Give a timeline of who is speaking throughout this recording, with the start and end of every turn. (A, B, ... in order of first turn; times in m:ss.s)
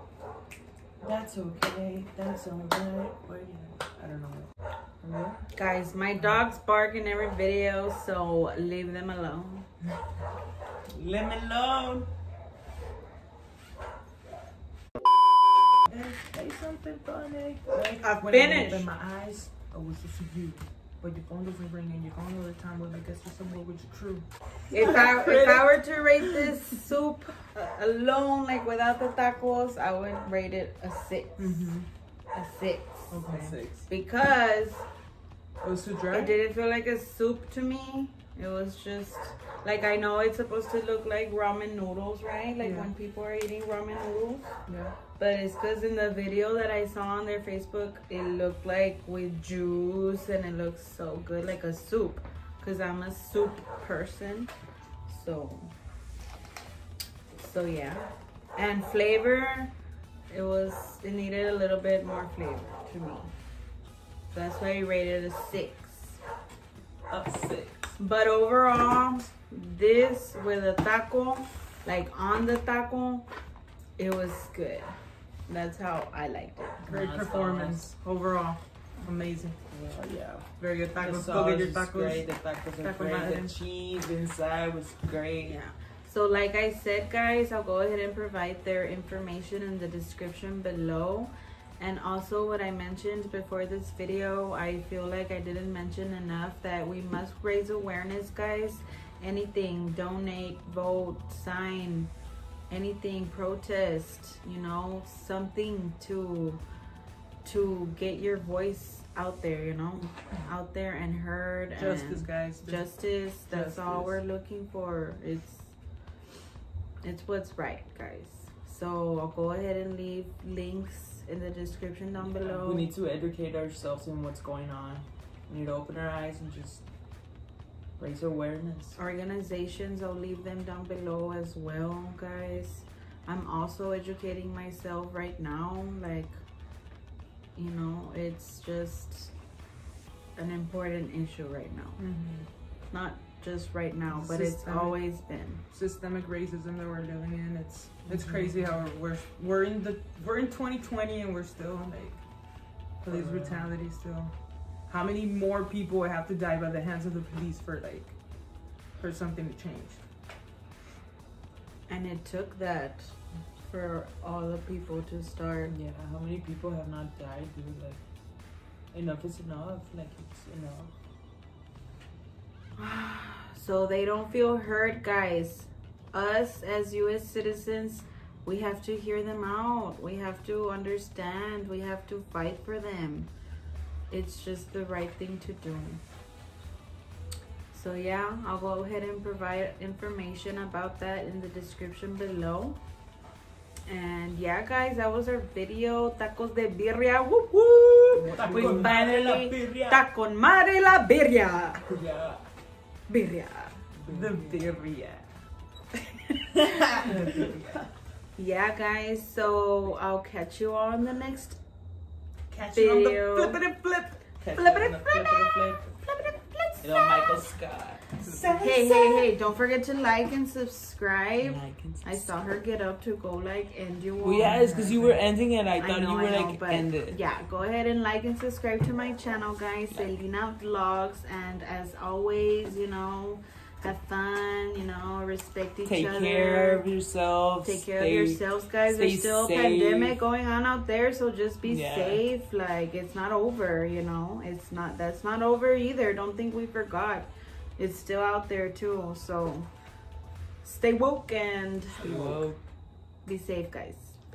0:01.0-0:04.5 A
0:05.0-0:05.4 B
0:05.5-0:09.7 C
0:10.9-0:12.1 A
0:15.9-0:19.4 A
0:18.0-0:18.9 C
0:18.2-0:24.2 B
0:24.7-0:31.6 C
0:24.8-0:25.5 B
0:24.8-0:25.5 A
0:31.4-0:31.9 B
0:32.3-0:33.2 C
0:33.1-0:33.6 B
0:33.2-0:33.8 A
0:33.9-0:34.8 C
0:35.6-0:36.4 B
0:36.1-0:44.5 C
0:42.6-0:42.9 B
0:44.7-0:45.0 B
0:45.2-0:54.5 C
0:55.0-0:55.7 C
0:57.3-0:59.7 C
1:00.3-1:03.3 C
1:04.3-1:06.2 C
1:07.1-1:07.9 A
1:08.0-1:13.3 C
1:14.0-1:15.0 C
1:15.5-1:16.9 C
1:16.8-1:17.9 A
1:16.9-1:19.6 B
1:19.7-1:25.6 A
1:20.6-1:22.3 B
1:22.8-1:23.5 C
1:25.4-1:42.1 C
1:42.7-1:46.6 C
1:47.4-1:55.7 C
1:51.8-1:52.8 B
1:53.5-1:54.2 B
1:57.0-2:02.9 C
2:02.3-2:06.8 A
2:08.0-2:09.0 A
2:09.0-2:16.4 C
2:17.5-2:19.3 C
2:20.4-2:22.0 C
2:22.0-2:22.5 B
2:22.9-2:25.6 C
2:24.1-2:25.0 B
2:25.7-2:32.2 B
2:33.0-2:34.3 B
2:33.0-2:33.7 A
2:34.9-2:38.1 B
2:39.0-2:40.0 B
2:41.9-2:45.8 C
2:45.7-2:48.0 A
2:48.9-2:50.9 A
2:52.8-3:03.3 C
3:04.1-3:06.0 C
3:07.7-3:12.8 C
3:13.8-3:21.8 C
3:18.2-3:19.0 B
3:18.2-3:20.0 A
3:21.8-3:22.4 A
3:23.1-3:23.8 C
3:24.0-3:24.9 A
3:24.0-3:25.2 B
3:26.5-3:27.9 A
3:26.8-3:27.1 C
3:27.0-3:27.8 B
3:28.4-3:31.6 C
3:32.5-3:34.2 B
3:32.6-3:33.6 C
3:34.4-3:35.9 A
3:34.5-3:37.4 C
3:36.8-3:39.3 A
3:38.2-3:38.7 B
3:38.5-3:44.8 C
3:41.4-3:42.4 A
3:44.2-3:47.2 A
3:44.5-3:45.2 B
3:45.8-3:56.8 C
3:55.8-4:00.2 A
3:57.6-4:09.7 C
4:01.6-4:02.2 A
4:10.6-4:12.4 C
4:12.0-4:12.6 A
4:12.0-4:12.4 B
4:13.2-4:14.2 C